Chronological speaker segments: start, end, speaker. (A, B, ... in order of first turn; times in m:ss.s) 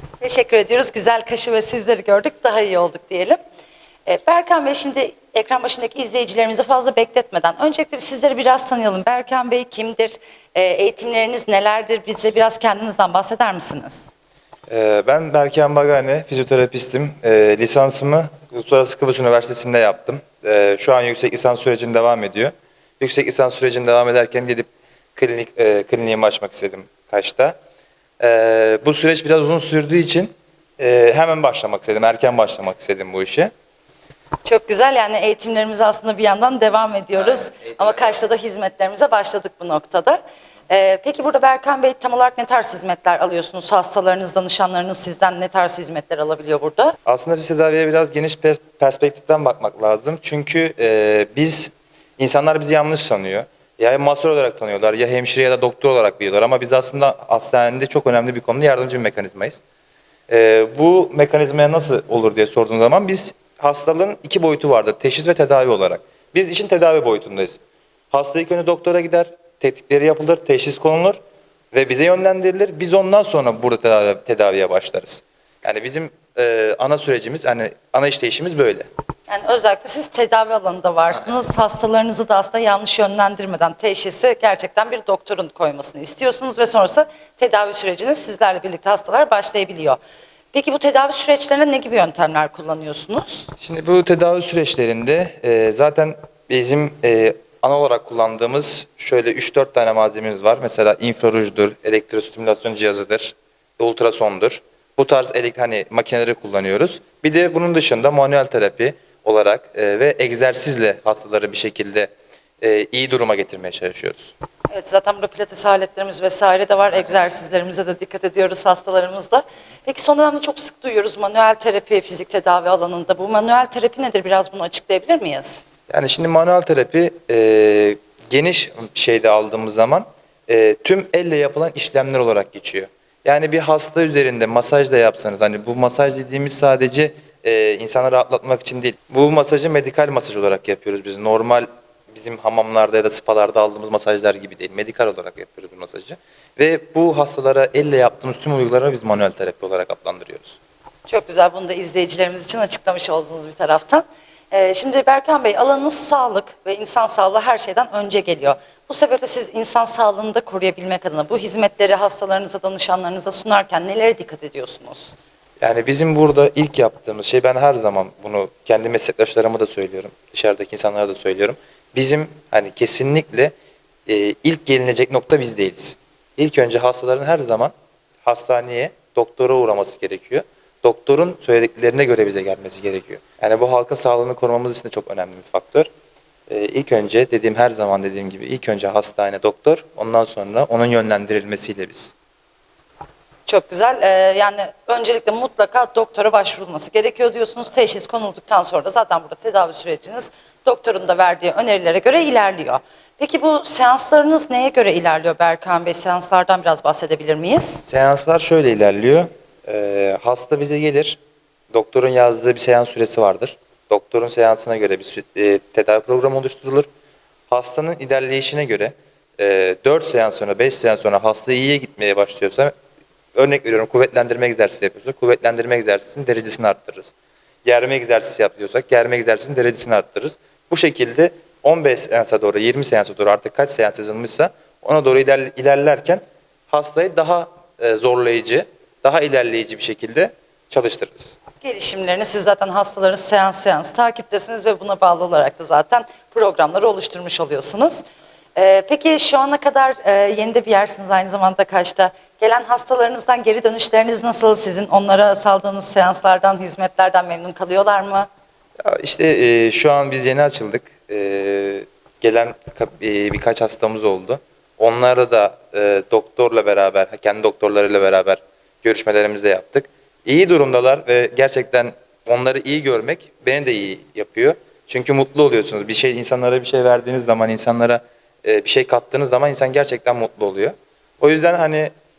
0:00.2-0:03.4 A
0:04.1-0:14.1 A
0:14.7-0:27.6 B
0:28.2-0:33.5 B
0:34.4-0:47.0 A
0:37.2-0:38.3 B
0:47.1-0:59.6 B
1:00.3-1:07.6 B
1:08.1-1:11.2 B
1:11.7-1:18.9 B
1:19.3-1:30.0 A
1:30.5-1:33.5 A
1:33.6-1:54.4 B
1:54.7-2:05.6 A
2:05.9-2:30.6 B
2:31.1-2:45.1 A
2:45.6-2:53.6 B
2:54.1-2:57.7 B
2:58.2-3:05.9 B
3:06.5-3:12.1 B
3:13.5-3:27.8 A
3:27.9-3:31.2 B
3:31.7-3:36.9 B
3:37.5-3:42.7 B
3:43.3-3:47.1 B
3:47.6-4:01.4 B
4:01.6-4:08.0 A
4:08.6-4:18.3 A
4:18.8-4:41.9 B